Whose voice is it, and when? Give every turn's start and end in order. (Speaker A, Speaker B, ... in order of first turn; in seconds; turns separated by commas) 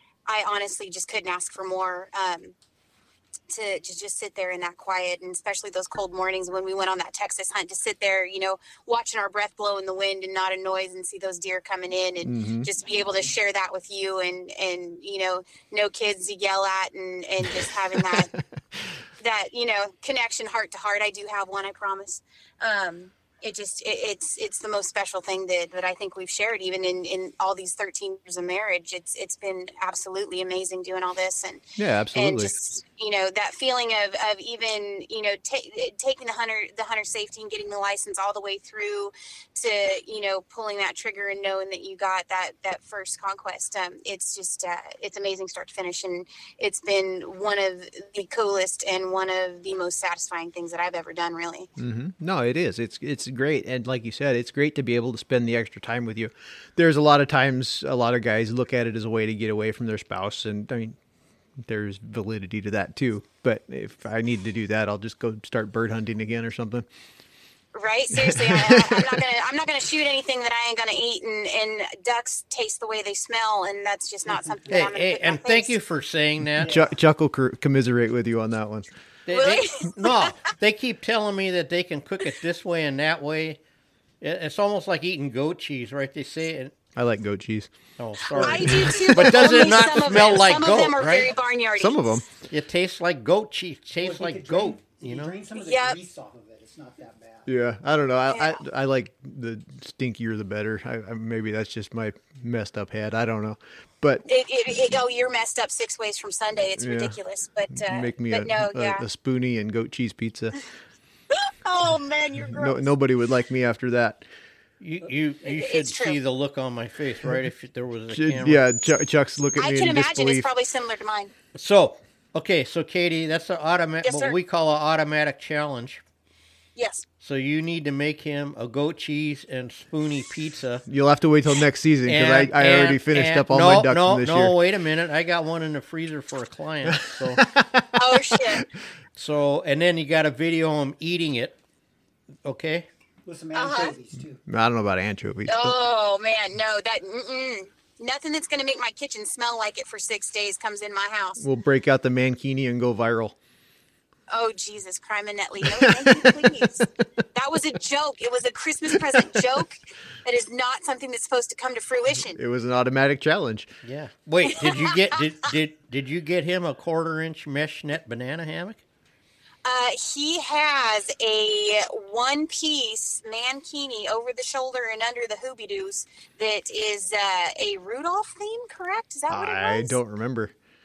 Speaker A: 0.3-2.5, Speaker A: 3.5-18.3, Speaker B: 12.2-12.7, Speaker B: 17.6-18.4, Speaker A: 19.2-51.7, Speaker B: 31.8-32.5, Speaker B: 51.8-61.0, Speaker B: 61.6-66.8, Speaker A: 67.7-75.8, Speaker B: 68.1-69.2, Speaker C: 74.3-74.5, Speaker D: 74.7-76.8, Speaker B: 76.5-78.9, Speaker C: 76.6-76.9, Speaker D: 79.3-83.6, Speaker A: 79.3-80.3, Speaker D: 84.2-86.7, Speaker B: 87.0-87.7, Speaker D: 88.0-91.3, Speaker B: 88.3-90.2, Speaker A: 88.3-92.2, Speaker B: 91.8-92.3, Speaker D: 92.5-95.3, Speaker C: 94.0-97.5, Speaker A: 95.5-96.0, Speaker B: 97.5-104.2, Speaker A: 98.3-98.6, Speaker A: 104.3-109.0, Speaker B: 106.8-107.2, Speaker B: 107.7-110.6, Speaker A: 111.3-112.8, Speaker B: 112.5-114.3, Speaker D: 114.8-118.6, Speaker A: 115.4-116.2, Speaker B: 118.1-120.5, Speaker A: 119.6-121.3, Speaker D: 121.5-126.0, Speaker A: 124.0-124.3, Speaker A: 126.8-127.0, Speaker D: 127.2-130.8, Speaker B: 130.9-134.5, Speaker D: 132.1-137.4, Speaker B: 136.9-138.6, Speaker A: 137.9-138.7, Speaker D: 139.2-141.6, Speaker D: 142.4-142.8, Speaker C: 143.2-144.4, Speaker A: 143.5-143.9, Speaker B: 144.4-145.7, Speaker A: 145.5-151.4, Speaker B: 151.4-153.3, Speaker A: 154.3-162.4, Speaker B: 155.6-156.6, Speaker B: 162.3-163.7, Speaker D: 163.8-168.8, Speaker A: 164.6-164.9, Speaker A: 169.6-180.0, Speaker B: 179.3-180.5